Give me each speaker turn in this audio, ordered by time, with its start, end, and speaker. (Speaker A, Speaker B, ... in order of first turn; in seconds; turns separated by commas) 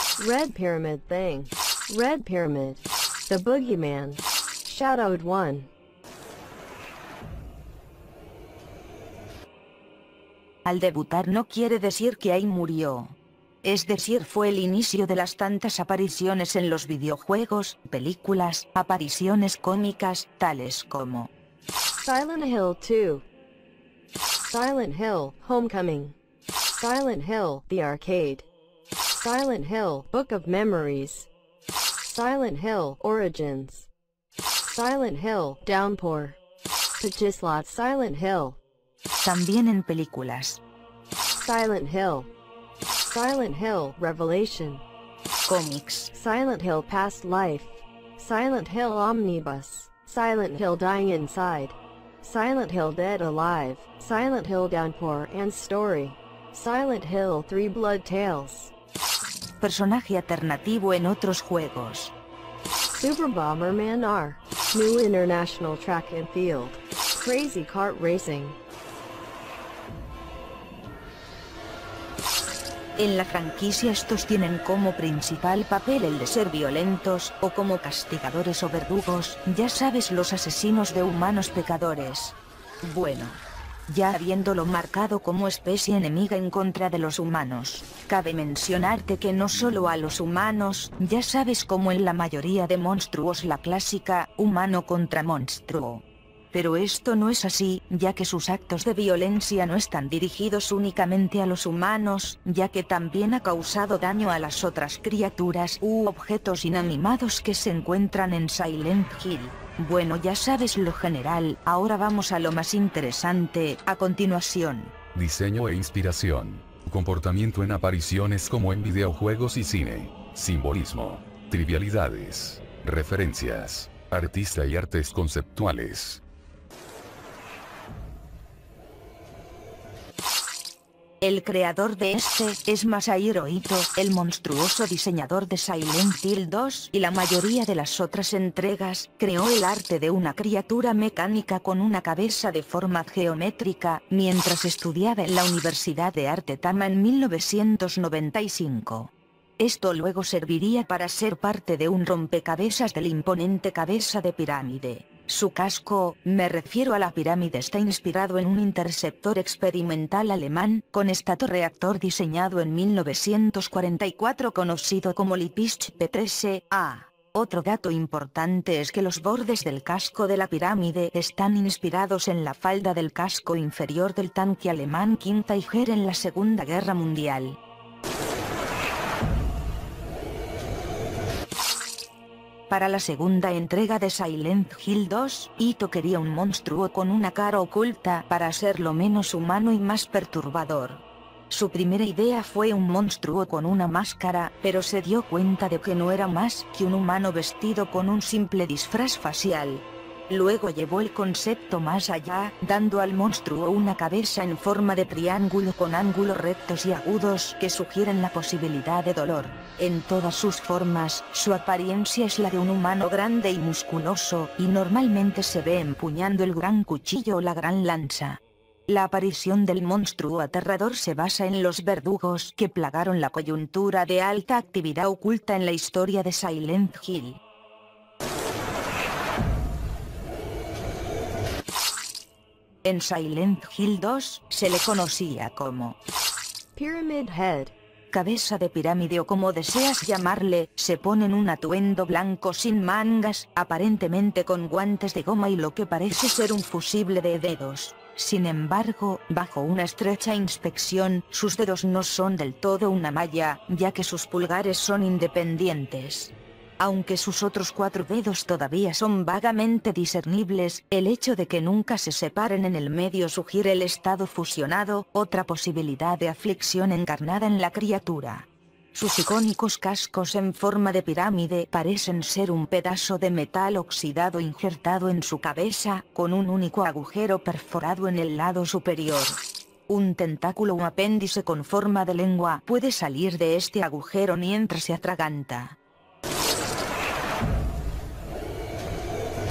Speaker A: 0.2-5.7, Speaker B: 10.7-21.3, Speaker A: 22.0-23.3, Speaker A: 24.5-26.2, Speaker A: 26.7-28.5, Speaker A: 29.2-31.3, Speaker A: 32.0-33.9, Speaker A: 34.7-36.4, Speaker A: 37.0-38.6, Speaker B: 39.2-40.6, Speaker A: 41.3-42.3, Speaker A: 43.1-44.9, Speaker B: 45.5-46.1, Speaker A: 46.1-58.7, Speaker B: 59.6-62.1, Speaker A: 62.9-68.6, Speaker B: 73.0-114.9, Speaker C: 115.1-126.2, Speaker B: 131.2-177.6, Speaker B: 182.7-227.4, Speaker B: 232.8-236.0, Speaker A: 236.8-237.7, Speaker B: 238.1-285.8